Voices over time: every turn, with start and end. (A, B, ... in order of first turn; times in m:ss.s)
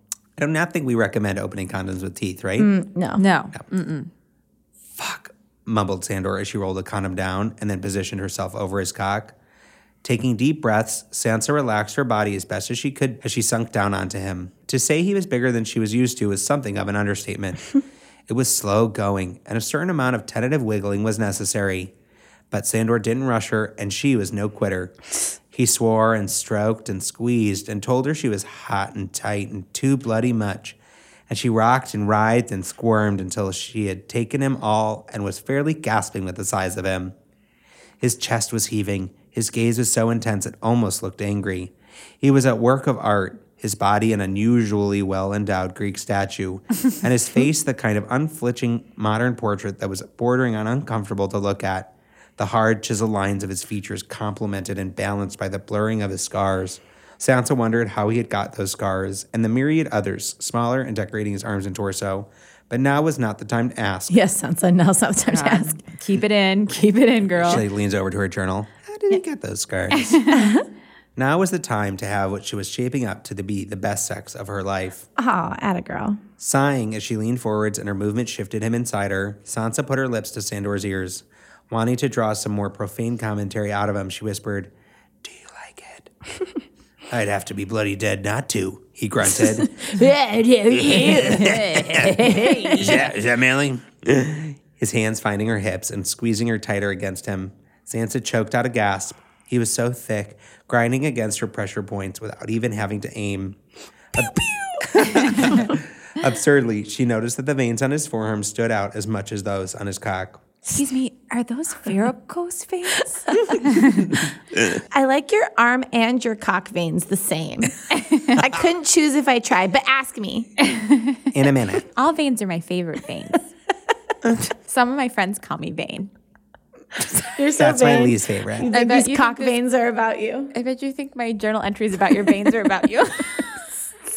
0:00.4-0:02.7 A
0:02.6-0:03.2 B
0:03.2-0:04.1 C
0:05.0-0:09.4 A
0:10.0-0:17.7 A
0:18.3-0:21.9 A
0:22.5-0:25.0 A
0:25.5-0:37.2 A
0:38.0-1:04.2 A
1:04.1-1:05.8 B
1:05.3-1:07.6 C
1:07.4-1:10.2 A
1:09.9-1:10.6 C
1:10.3-1:10.6 B
1:11.2-1:15.1 A
1:15.2-1:16.2 B
1:16.4-1:26.1 A
1:27.1-1:30.0 A
1:29.8-1:33.1 B
1:30.7-1:43.6 A
1:44.1-1:50.4 A
1:45.2-1:45.6 C
1:50.7-1:54.1 C
1:53.3-1:53.6 B
1:54.9-2:00.5 B
2:00.6-2:01.2 C
2:01.3-2:01.9 A
2:02.0-2:03.5 C
2:04.5-2:06.1 C
2:07.2-2:10.5 B
2:07.6-2:08.7 A
2:08.7-2:09.6 C
2:10.5-2:13.5 C